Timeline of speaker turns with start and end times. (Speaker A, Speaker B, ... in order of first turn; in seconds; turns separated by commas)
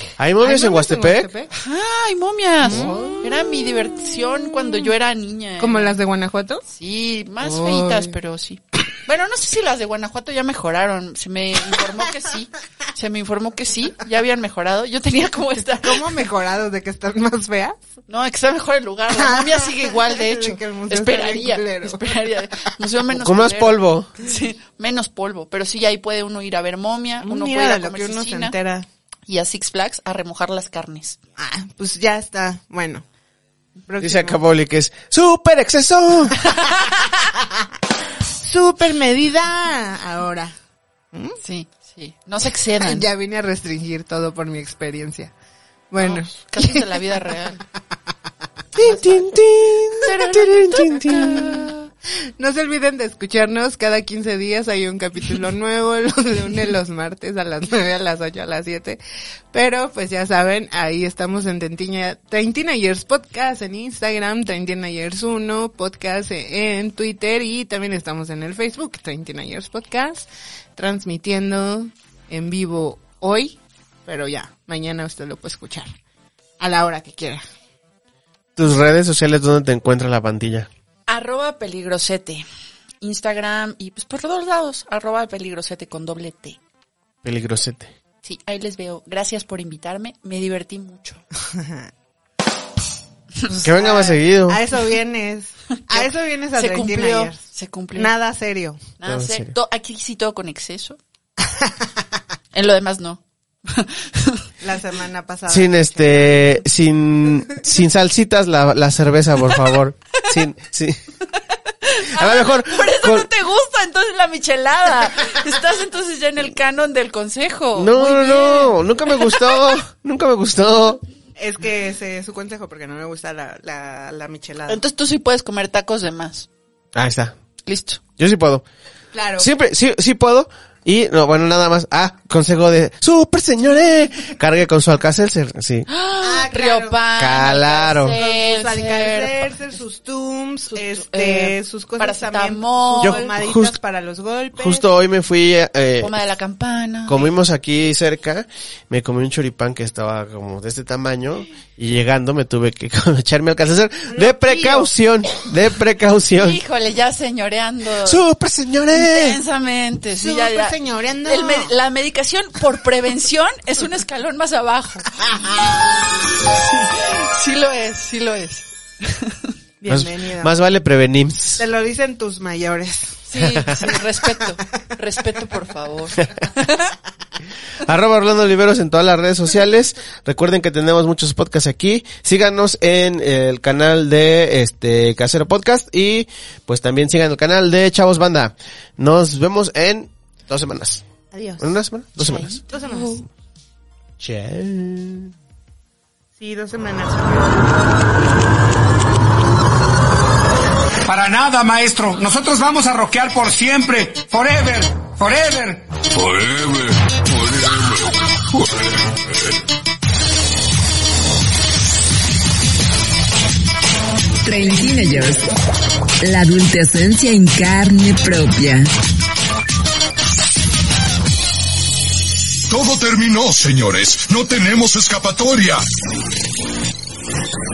Speaker A: 0.2-1.3, Speaker B: 0.4-1.5, Speaker C: 1.5-6.0, Speaker B: 2.6-3.3, Speaker B: 5.6-6.7, Speaker C: 6.7-16.0, Speaker B: 7.4-8.1, Speaker B: 15.8-17.8, Speaker C: 18.1-28.6, Speaker B: 19.1-22.7, Speaker A: 23.1-24.1, Speaker B: 27.2-28.9, Speaker C: 29.3-31.2, Speaker B: 31.4-33.0, Speaker B: 33.9-34.4, Speaker A: 34.0-36.4, Speaker B: 38.4-40.5, Speaker B: 41.1-41.4, Speaker C: 41.4-43.1, Speaker B: 42.8-45.3, Speaker B: 45.9-47.0, Speaker C: 46.0-47.6, Speaker A: 48.8-51.7, Speaker C: 50.0-51.9, Speaker B: 52.4-59.0, Speaker B: 59.5-75.9, Speaker B: 76.6-77.4, Speaker A: 78.6-80.7, Speaker C: 81.1-82.4, Speaker C: 83.0-86.6, Speaker A: 87.2-87.9, Speaker C: 88.2-91.2, Speaker B: 91.5-91.9, Speaker B: 93.5-97.4, Speaker A: 93.6-94.6, Speaker C: 95.9-98.1, Speaker B: 98.0-98.8, Speaker C: 99.0-101.0, Speaker A: 99.1-99.5, Speaker C: 102.5-104.5, Speaker B: 104.6-106.6, Speaker A: 105.5-111.0, Speaker C: 111.8-119.7, Speaker A: 112.1-113.3, Speaker A: 117.8-121.0, Speaker B: 121.4-124.8, Speaker C: 124.7-126.5, Speaker A: 127.0-127.4, Speaker C: 127.6-128.0, Speaker A: 128.2-128.7, Speaker B: 129.1-129.5, Speaker A: 129.4-135.9, Speaker C: 135.9-139.4, Speaker B: 136.2-137.0, Speaker A: 137.2-138.2, Speaker B: 138.1-144.8, Speaker C: 140.7-143.3, Speaker A: 143.0-143.8, Speaker A: 144.6-146.2, Speaker C: 146.0-147.3, Speaker A: 147.1-156.6, Speaker B: 154.1-154.9, Speaker C: 156.4-158.2, Speaker A: 158.0-159.4, Speaker C: 158.9-165.4, Speaker B: 160.1-161.7, Speaker C: 166.4-169.5, Speaker B: 169.8-170.5, Speaker A: 169.9-171.6, Speaker B: 171.6-174.3, Speaker C: 173.3-176.9, Speaker A: 173.4-173.7, Speaker A: 177.8-191.1, Speaker B: 191.3-191.8, Speaker A: 191.6-192.6, Speaker C: 192.2-192.6, Speaker B: 192.6-193.3, Speaker A: 194.2-195.3, Speaker B: 196.4-197.7, Speaker D: 201.1-205.9, Speaker E: 206.1-209.5, Speaker F: 214.4-215.4, Speaker F: 216.2-218.9, Speaker E: 222.7-225.8